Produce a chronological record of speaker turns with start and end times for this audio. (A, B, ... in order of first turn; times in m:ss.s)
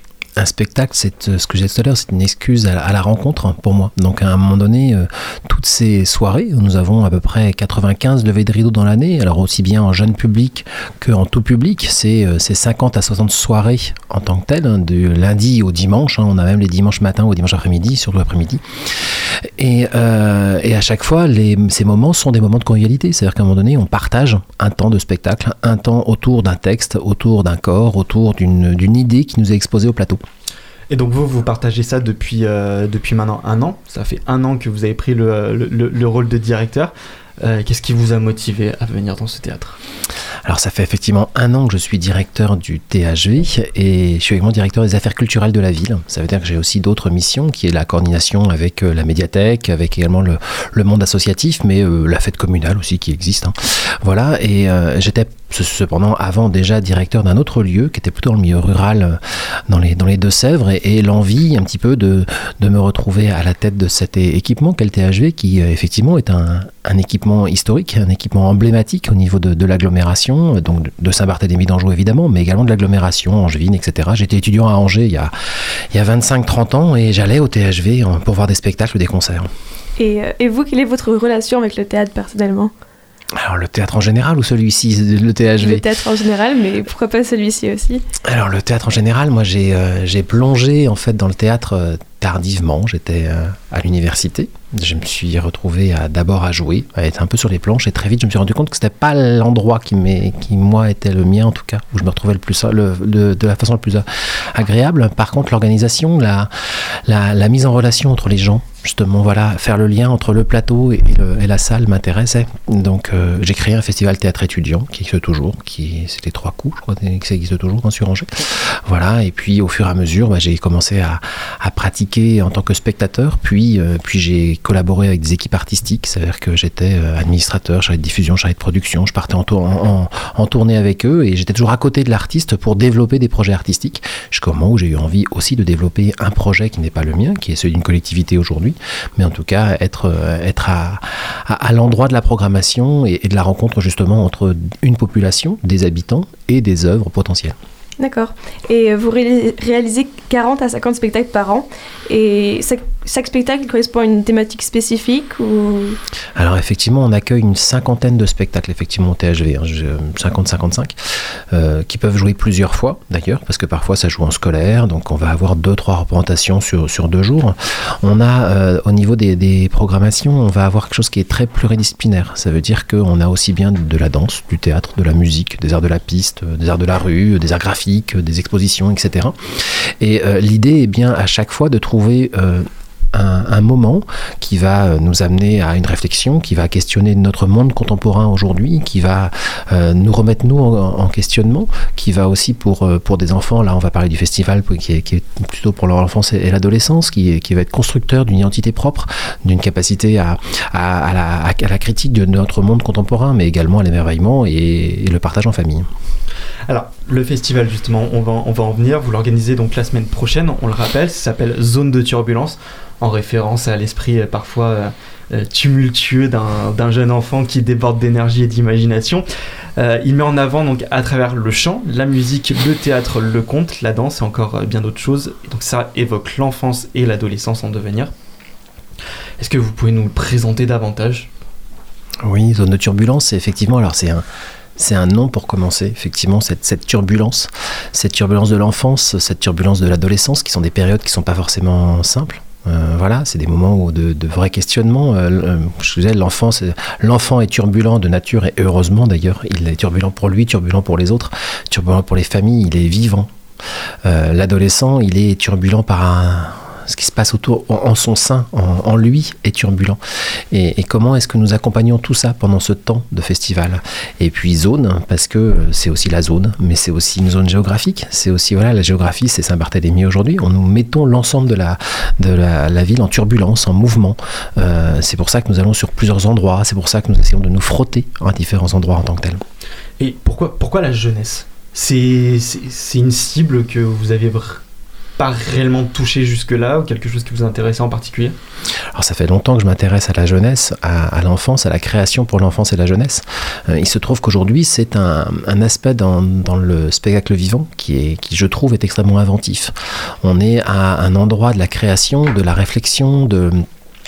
0:00.4-0:30.2 A
0:30.9-0:39.8 B
0:40.4-1:15.3 A
1:15.9-1:19.5 A
1:20.0-1:22.7 C
1:23.3-1:25.9 A
1:25.6-1:28.0 C
1:28.2-2:27.6 A
2:28.0-2:36.0 C
2:36.4-3:25.9 A
3:26.7-3:39.2 B
3:39.8-3:48.1 B
3:49.4-3:51.3 B
3:52.2-3:54.2 A
3:54.8-4:13.3 A
4:14.0-4:39.4 A
4:40.0-4:44.6 B
4:45.2-4:48.4 B
4:48.9-5:03.7 A